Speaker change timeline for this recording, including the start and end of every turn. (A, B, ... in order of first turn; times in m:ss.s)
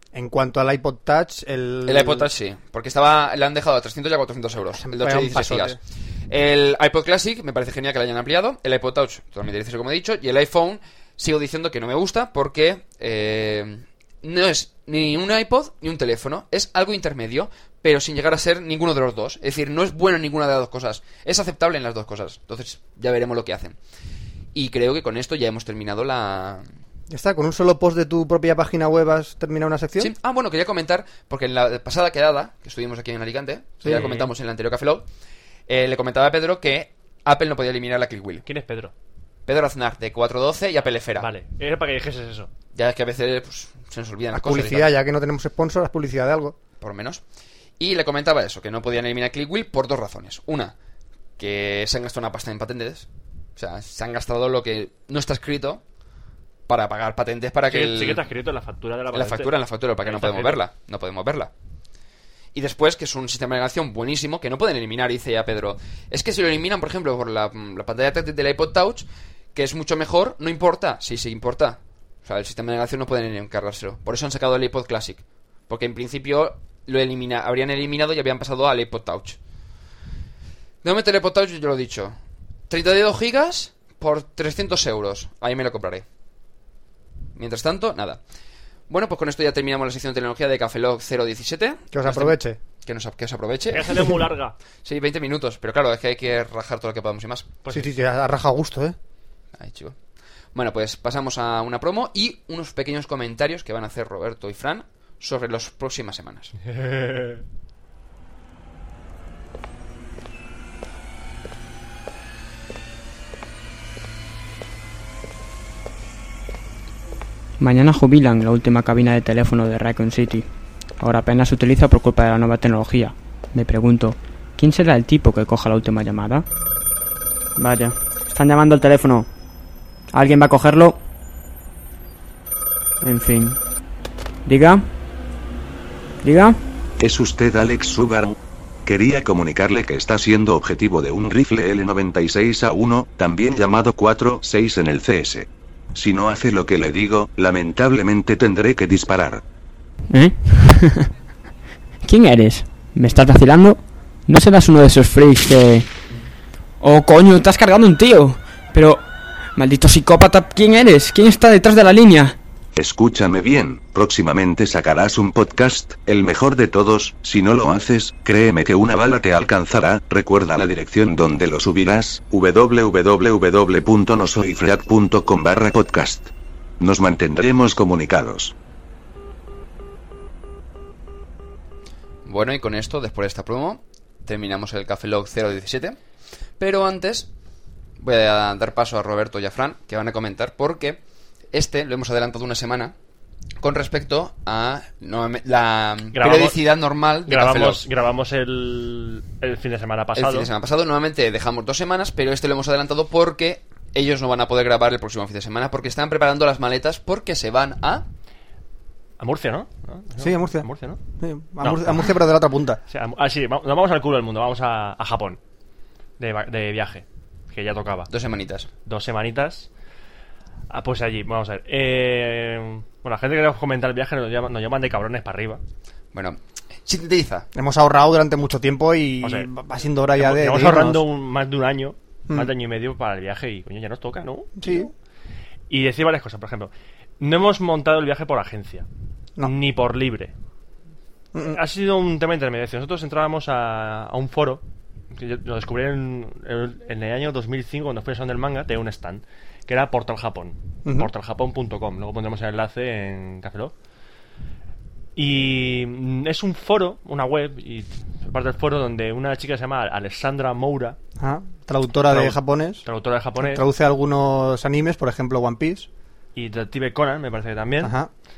0:00.1-0:02.3 A
0:01.8-0:05.8 B
0:04.8-0:05.8 A
0:06.3-0:23.8 B
0:24.5-0:26.6 B
0:27.1-0:30.1 A
0:30.0-0:35.0 B
0:33.8-0:34.3 C
0:35.7-0:38.4 B
0:38.4-0:38.9 C
0:39.5-0:41.3 B
0:41.2-0:42.5 C
0:42.7-0:44.9 B
0:44.3-0:46.5 A
0:46.8-0:47.2 B
0:47.8-0:50.7 B
0:51.4-0:55.8 B
0:56.7-0:58.2 B
0:57.7-0:59.5 C
0:59.1-1:01.5 B
1:00.0-1:00.6 C
1:02.5-1:19.4 B
1:20.8-1:22.2 B
1:22.7-1:26.0 B
1:27.3-1:28.2 B
1:28.9-1:34.2 B
1:31.9-1:32.6 A
1:33.7-1:34.6 C
1:34.8-1:37.5 B
1:37.6-1:37.9 C
1:37.7-1:39.0 A
1:39.6-1:40.0 B
1:40.5-1:46.6 B
1:46.7-1:47.4 C
1:57.6-2:00.4 D
2:01.0-2:06.4 D
2:07.6-2:09.3 D
2:10.1-2:11.0 D
2:13.0-2:13.6 D
2:14.4-2:14.9 D
2:16.2-2:16.6 D
2:17.0-2:29.4 E
2:30.1-2:31.1 D
2:32.0-2:35.9 D
2:36.8-2:42.4 D
2:42.8-2:58.5 E
3:02.2-3:06.0 B
3:06.6-3:07.3 B
3:08.0-3:11.0 B
3:11.5-3:12.9 B
3:13.6-3:17.8 B
3:16.1-3:16.6 C
3:17.3-3:20.5 C
3:20.2-3:28.0 B
3:29.2-3:31.0 C
3:30.2-3:30.6 A
3:31.2-3:32.8 A
3:31.6-3:32.1 C
3:32.9-3:35.4 C
3:36.2-3:38.1 C
3:38.1-3:38.7 B
3:38.8-3:39.7 C
3:40.7-3:45.6 C
3:46.1-3:47.5 B
3:47.5-3:51.0 A
3:49.2-3:49.5 C
3:50.1-3:54.9 C
3:54.6-3:54.9 A
3:55.7-3:58.9 C
3:59.4-4:00.3 C
4:01.4-4:13.7 C
4:10.8-4:11.1 A
4:15.2-4:21.0 C
4:21.2-4:22.8 A
4:22.1-4:23.6 C
4:23.4-4:25.9 A
4:26.3-4:27.9 C
4:27.8-4:28.1 A